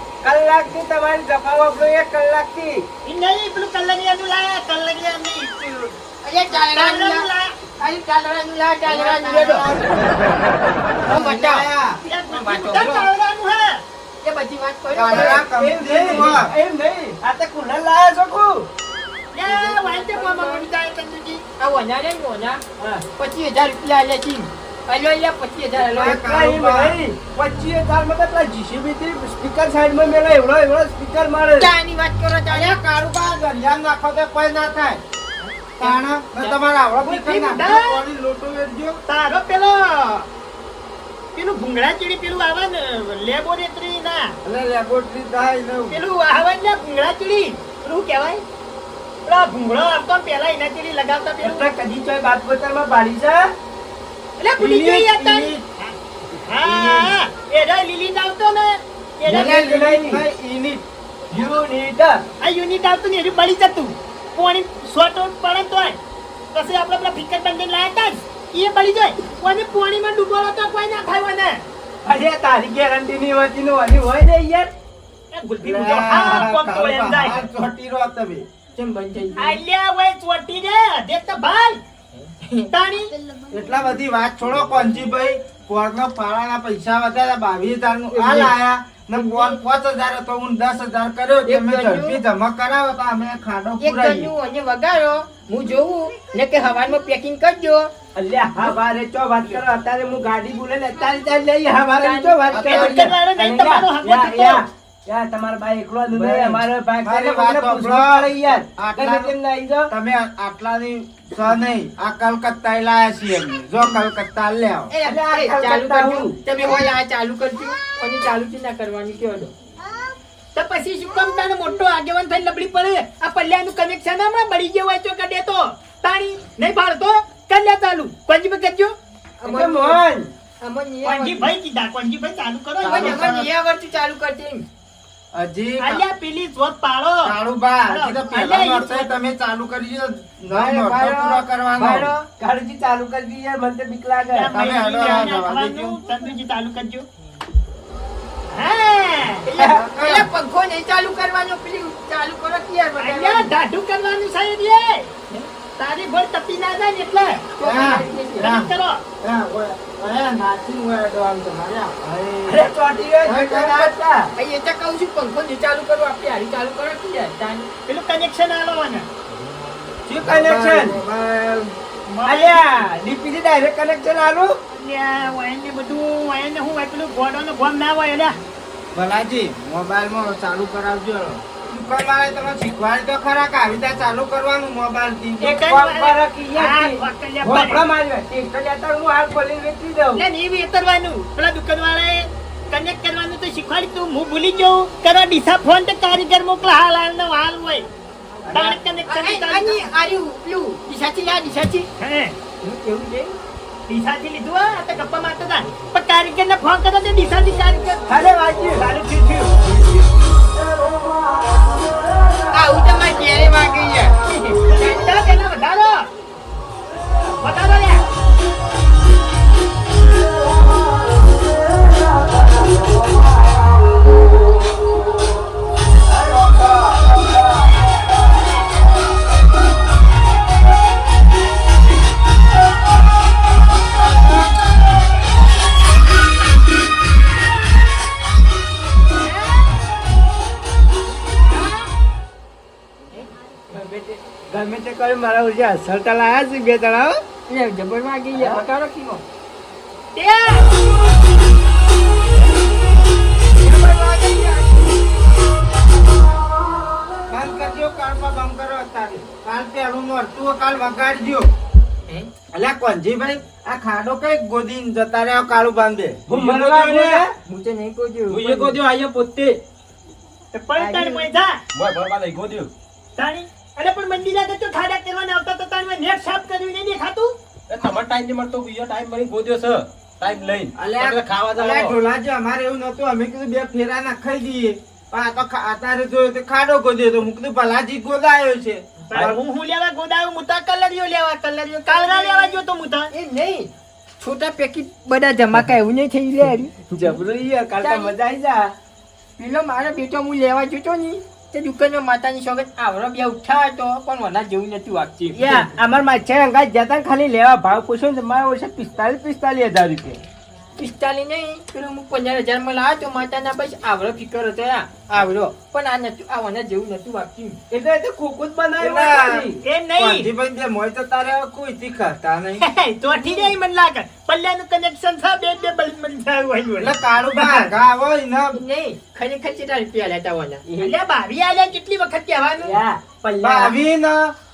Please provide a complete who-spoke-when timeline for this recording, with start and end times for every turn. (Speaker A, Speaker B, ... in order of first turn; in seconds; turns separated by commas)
Speaker A: 0.2-2.9, Speaker B: 3.0-6.0, Speaker C: 6.2-9.9, Speaker B: 6.6-7.5, Speaker D: 8.8-12.0, Speaker C: 11.1-11.7, Speaker B: 12.0-13.8, Speaker C: 12.3-13.1, Speaker C: 14.2-15.4, Speaker D: 14.9-16.5, Speaker A: 15.1-18.7, Speaker B: 19.3-21.4, Speaker C: 19.5-20.7, Speaker C: 21.6-22.6, Speaker A: 22.8-23.0, Speaker C: 23.2-26.2, Speaker D: 25.8-27.0, Speaker A: 26.0-31.7, Speaker C: 31.6-32.8, Speaker D: 32.5-35.0, Speaker B: 35.4-38.0, Speaker D: 35.8-39.0, Speaker B: 39.1-40.3, Speaker B: 41.3-44.4, Speaker D: 44.4-46.0, Speaker B: 45.9-48.4, Speaker B: 49.2-51.7, Speaker A: 51.4-53.5, Speaker B: 54.4-59.6, Speaker D: 54.6-55.6, Speaker D: 56.7-57.0, Speaker D: 59.2-60.8, Speaker A: 59.2-60.2, Speaker A: 61.3-62.2, Speaker B: 62.4-66.0, Speaker B: 66.5-71.6, Speaker A: 72.0-74.7, Speaker B: 75.3-77.4, Speaker D: 75.6-78.5, Speaker C: 78.7-79.6, Speaker B: 79.4-81.8, Speaker B: 82.7-83.1, Speaker D: 83.5-94.3, Speaker A: 88.1-88.5, Speaker C: 89.1-89.6, Speaker C: 91.4-92.2, Speaker C: 93.8-97.9, Speaker A: 98.2-109.9, Speaker C: 102.0-102.7, Speaker D: 102.5-103.1, Speaker B: 102.6-104.7, Speaker D: 106.1-109.3, Speaker D: 109.9-114.9, Speaker C: 114.9-119.5, Speaker A: 115.0-116.4, Speaker B: 120.5-128.9, Speaker C: 129.4-130.0, Speaker A: 129.4-130.3, Speaker C: 130.6-131.5, Speaker B: 131.0-133.3, Speaker D: 132.8-133.5, Speaker C: 132.9-134.6, Speaker D: 135.3-136.0, Speaker B: 135.8-137.3, Speaker D: 137.2-142.1, Speaker B: 137.9-139.1, Speaker C: 140.6-142.2, Speaker A: 141.7-144.5, Speaker B: 144.3-147.1, Speaker D: 144.5-146.0, Speaker B: 148.5-149.4, Speaker C: 149.4-153.5, Speaker D: 149.7-150.3, Speaker B: 153.0-157.4, Speaker C: 157.5-158.5, Speaker D: 157.6-158.7, Speaker B: 158.4-159.0, Speaker D: 159.2-162.7, Speaker A: 162.5-164.3, Speaker D: 163.2-163.9, Speaker C: 164.3-167.7, Speaker B: 167.9-169.1, Speaker A: 170.1-171.0, Speaker D: 170.1-171.7, Speaker B: 172.1-172.8, Speaker A: 172.2-174.6, Speaker B: 174.7-178.4, Speaker D: 178.9-185.6, Speaker B: 185.4-187.8, Speaker A: 185.4-190.2, Speaker B: 190.1-197.9, Speaker B: 198.5-199.8, Speaker C: 199.1-201.9, Speaker B: 202.0-202.3, Speaker C: 202.6-203.3, Speaker B: 203.9-208.1, Speaker A: 208.1-208.8, Speaker B: 208.7-209.5, Speaker C: 212.5-215.1, Speaker B: 214.6-216.1, Speaker B: 217.4-218.0, Speaker A: 243.7-247.2, Speaker C: 247.5-249.2, Speaker A: 248.3-248.6, Speaker B: 250.1-250.7, Speaker C: 253.8-254.7, Speaker D: 257.3-261.5, Speaker D: 262.5-267.2, Speaker A: 266.3-267.3, Speaker C: 267.4-268.8, Speaker E: 268.3-269.6, Speaker B: 270.5-271.6, Speaker C: 270.8-271.1, Speaker E: 271.7-272.7, Speaker B: 273.2-277.3, Speaker E: 277.7-282.0, Speaker D: 280.7-289.4, Speaker B: 289.1-293.1, Speaker C: 291.9-296.7, Speaker A: 296.9-298.7, Speaker C: 297.8-298.1, Speaker C: 299.4-305.7, Speaker A: 305.3-310.2, Speaker C: 310.8-317.6, Speaker A: 317.7-319.6, Speaker D: 318.8-322.6, Speaker B: 319.6-320.3, Speaker B: 322.6-327.7, Speaker C: 323.1-323.5, Speaker D: 326.8-328.6, Speaker C: 328.5-330.6, Speaker A: 330.6-330.9, Speaker B: 330.8-332.8, Speaker A: 332.6-333.7, Speaker D: 333.4-334.3